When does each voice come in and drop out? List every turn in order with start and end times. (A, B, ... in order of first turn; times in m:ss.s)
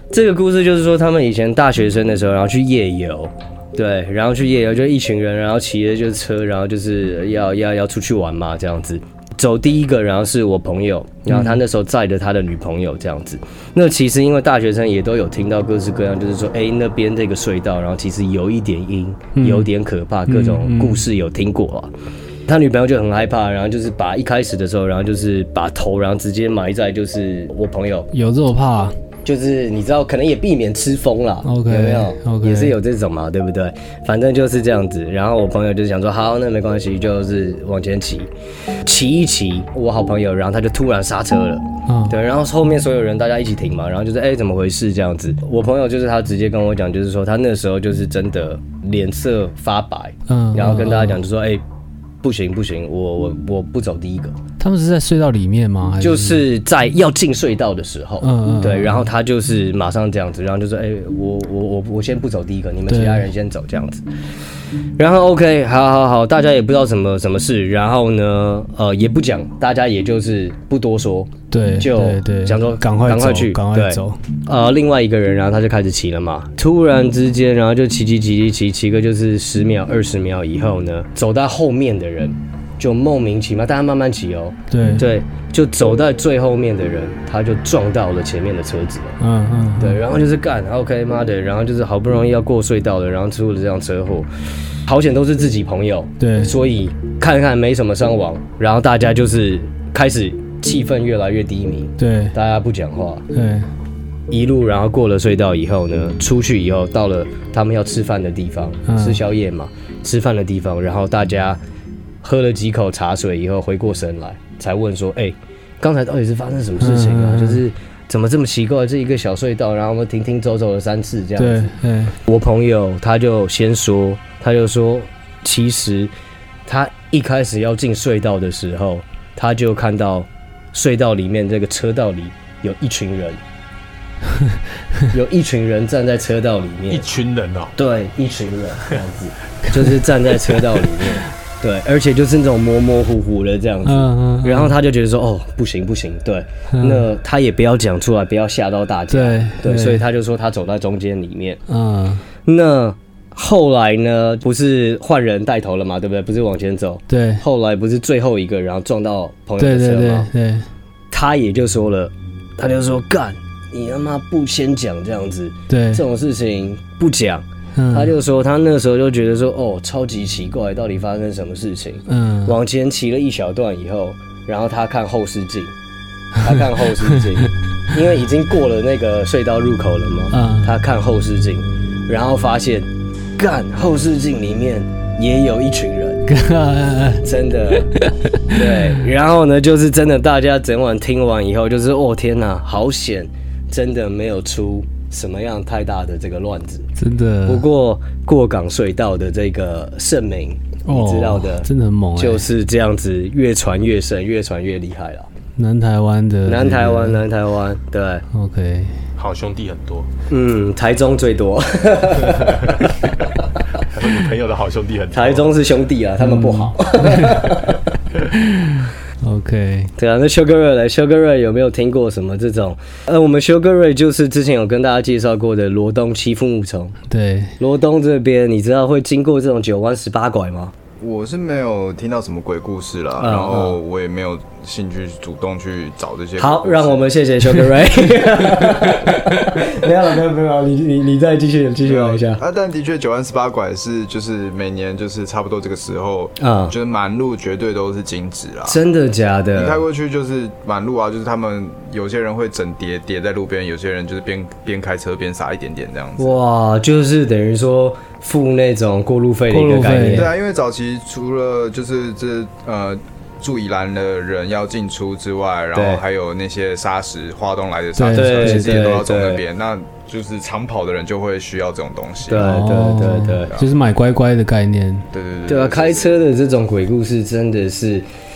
0:00.1-0:21.9 A
0:11.3-0:11.6 B
0:19.4-0:19.7 B
0:20.3-0:21.1 B
0:22.5-0:28.1 A
0:28.1-0:29.0 B
0:29.2-0:38.3 A
0:31.4-0:32.8 B
0:38.8-0:51.6 A
0:41.9-0:42.2 B
0:50.3-0:51.2 B
0:52.2-0:54.4 A
0:54.6-0:56.5 B
0:56.0-1:04.0 A
0:58.2-0:59.1 B
1:02.9-1:03.3 B
1:05.0-1:29.2 A
1:11.5-1:14.2 B
1:24.7-1:25.1 B
1:29.2-1:30.0 B
1:29.8-1:34.3 A
1:34.9-1:43.2 A
1:36.2-1:36.5 B
1:42.0-1:42.3 B
1:43.3-1:43.7 B
1:44.3-1:51.6 A
1:48.9-1:49.2 B
1:52.2-2:01.7 A
1:56.8-1:57.6 B
2:01.4-2:02.2 B
2:02.2-2:06.1 A
2:06.7-2:13.4 A
2:14.3-2:15.0 B
2:15.1-2:17.0 A
2:16.9-2:17.8 C
2:17.8-2:31.6 A
2:19.7-2:20.0 B
2:23.9-2:24.8 B
2:26.7-2:27.1 B
2:29.1-2:30.0 B
2:31.7-2:32.2 B
2:32.5-2:40.3 A
2:37.1-2:37.4 B
2:39.6-2:40.7 B
2:41.1-2:55.7 A
2:45.7-2:46.0 B
2:47.8-2:48.2 B
2:52.1-2:52.6 B
2:56.4-3:06.2 A
2:56.5-2:57.5 B
3:00.3-3:00.7 B
3:06.3-3:08.7 B
3:07.2-3:07.9 A
3:08.5-3:16.9 A
3:17.0-3:17.7 B
3:17.5-3:25.3 A
3:20.8-3:22.5 B
3:25.6-3:27.2 B
3:26.5-3:28.2 A
3:28.3-3:29.0 B
3:29.2-3:30.1 C
3:30.3-3:33.8 A
3:32.4-3:32.9 C
3:33.8-3:35.5 C
3:35.1-3:37.9 A
3:36.2-3:37.5 B
3:38.3-3:39.9 B
3:40.0-3:47.0 A
3:47.1-3:47.6 B
3:47.6-3:50.7 A
3:51.0-3:57.1 D
3:53.2-3:53.8 A
3:56.4-4:02.4 A
3:58.6-3:59.6 B
4:01.8-4:08.8 D
4:06.4-4:06.7 A
4:08.7-4:09.8 A
4:09.6-4:16.4 D
4:16.2-4:20.3 A
4:19.5-4:20.3 B
4:20.0-4:32.6 D
4:25.8-4:26.0 A
4:28.0-4:28.8 B
4:28.1-4:29.4 A
4:32.3-4:33.5 A
4:32.4-4:35.1 B
4:35.1-4:36.1 D
4:35.5-4:38.1 A